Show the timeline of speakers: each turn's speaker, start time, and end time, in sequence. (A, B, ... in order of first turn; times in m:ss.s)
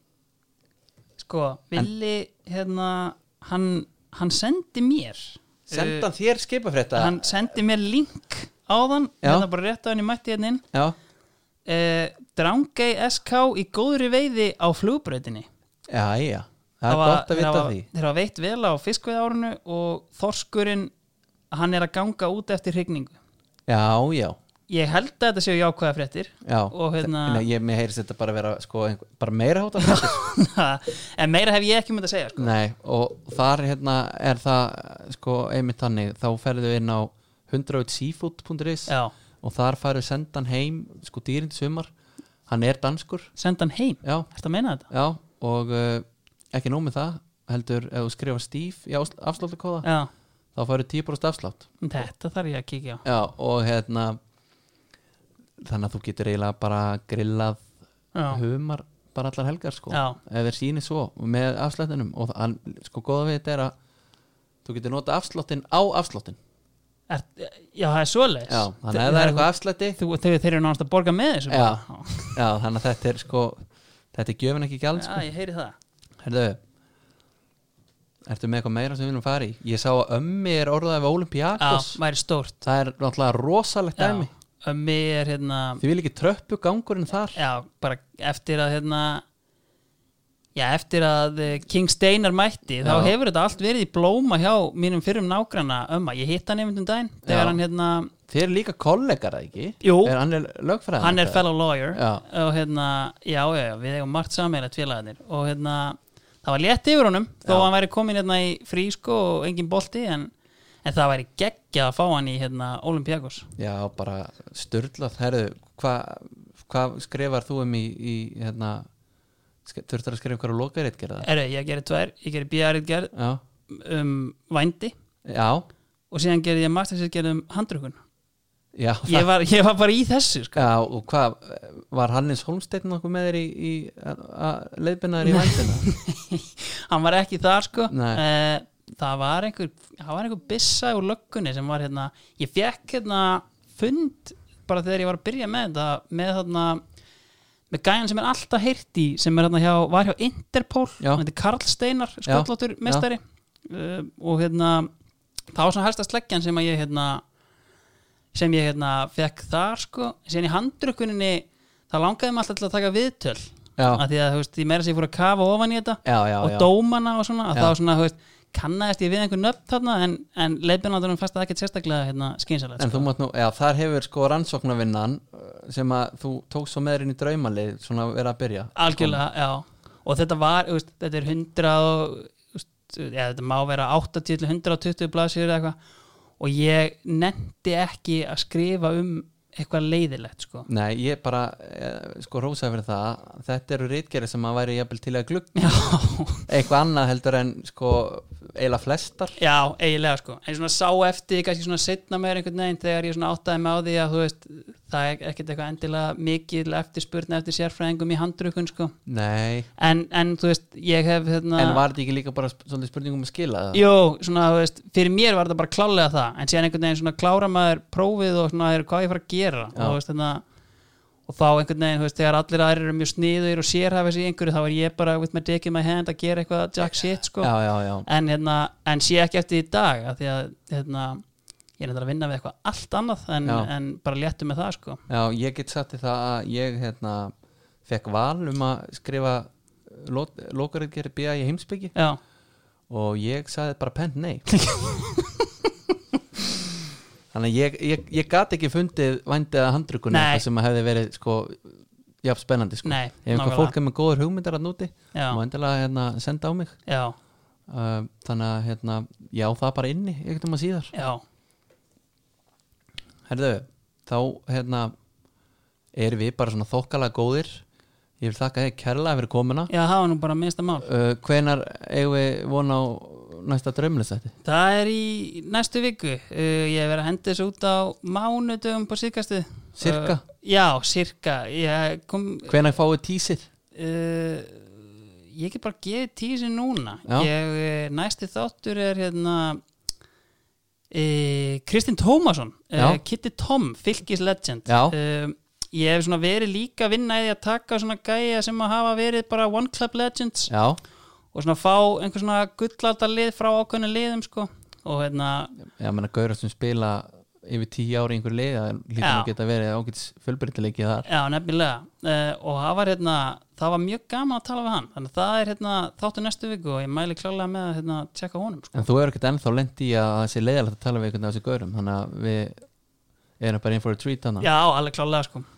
0:01.2-0:06.1 A
0:05.7-0:07.4 B
0:06.9-0:10.6 A
0:11.7-0:15.5 A
0:15.9-0:17.8 B
0:16.9-0:20.9 A
0:21.5-0:23.2 A
0:23.7-0:24.4 B
0:24.7-0:27.4 A
0:26.4-0:30.2 B
0:29.8-0:32.5 A
0:32.4-0:41.9 B
0:38.9-0:39.1 A
0:42.5-0:43.3 B
0:43.4-0:44.9 A
0:44.9-0:49.9 B
0:49.8-0:50.1 A
0:50.5-0:51.7 B
0:51.8-0:53.0 A
0:53.0-0:54.2 B
0:55.6-0:57.6 B
0:58.1-0:58.4 A
0:58.3-1:03.7 B
0:59.9-1:00.2 A
1:04.6-1:06.4 B
1:07.1-1:12.4 A
1:08.5-1:10.0 B
1:11.5-1:11.8 B
1:12.3-1:15.2 B
1:14.9-1:15.8 A
1:16.2-1:16.6 B
1:18.2-1:22.0 B
1:21.6-1:22.6 A
1:22.6-1:24.3 B
1:24.0-1:25.8 A
1:25.8-1:27.4 B
1:27.3-1:29.2 A
1:30.5-1:38.1 A
1:32.8-1:33.1 B
1:37.2-1:37.6 B
1:38.3-1:42.2 B
1:39.8-1:40.2 A
1:41.0-1:50.3 A
1:47.4-1:47.7 B
1:50.8-1:53.5 A
1:53.6-1:58.9 B
1:59.6-2:01.3 B
2:01.2-2:03.1 A
2:03.1-2:03.4 B
2:03.7-2:04.9 A
2:05.2-2:05.6 B
2:06.1-2:08.0 A
2:08.7-2:09.3 B
2:09.0-2:10.7 A
2:10.5-2:15.8 B
2:15.2-2:26.8 A
2:17.9-2:18.2 B
2:27.7-2:34.9 A
2:32.2-2:33.1 B
2:35.5-2:37.2 A
2:38.3-2:53.1 A
2:43.8-2:44.0 B
2:46.0-2:46.7 B
2:52.8-2:59.2 B
2:58.8-3:05.8 A
3:06.4-3:10.7 A
3:10.7-3:15.8 B
3:15.6-3:16.5 A
3:16.5-3:19.4 B
3:19.4-3:28.9 A
3:29.0-3:29.7 B
3:29.8-3:31.8 A
3:31.6-3:33.8 B
3:33.7-3:40.4 A
3:41.3-3:47.5 A
3:47.4-3:48.1 B
3:48.0-3:51.2 A
3:51.8-3:55.0 A
3:53.4-3:53.7 B
3:55.1-3:57.3 B
3:57.8-4:01.9 B
4:02.9-4:04.5 B
4:04.6-4:05.5 A
4:07.3-4:16.8 B
4:10.1-4:10.4 A
4:12.8-4:13.7 A
4:15.1-4:15.4 A
4:16.9-4:17.1 A
4:17.7-4:20.9 B
4:20.9-4:21.2 A
4:23.3-4:24.9 B
4:25.9-4:27.6 B
4:28.2-4:29.7 B
4:29.7-4:30.9 A
4:30.8-4:34.3 B
4:34.4-4:42.6 A
4:39.8-4:40.2 B
4:42.5-4:43.5 B
4:43.7-4:49.6 A
4:50.9-5:00.5 A
4:52.8-4:53.0 B
4:54.7-4:54.9 B
5:00.5-5:00.8 B
5:01.3-5:05.6 A
5:05.6-5:11.1 B
5:09.0-5:09.3 A
5:11.0-5:18.7 A
5:18.7-5:22.6 B
5:23.4-5:24.5 B
5:24.4-5:25.5 A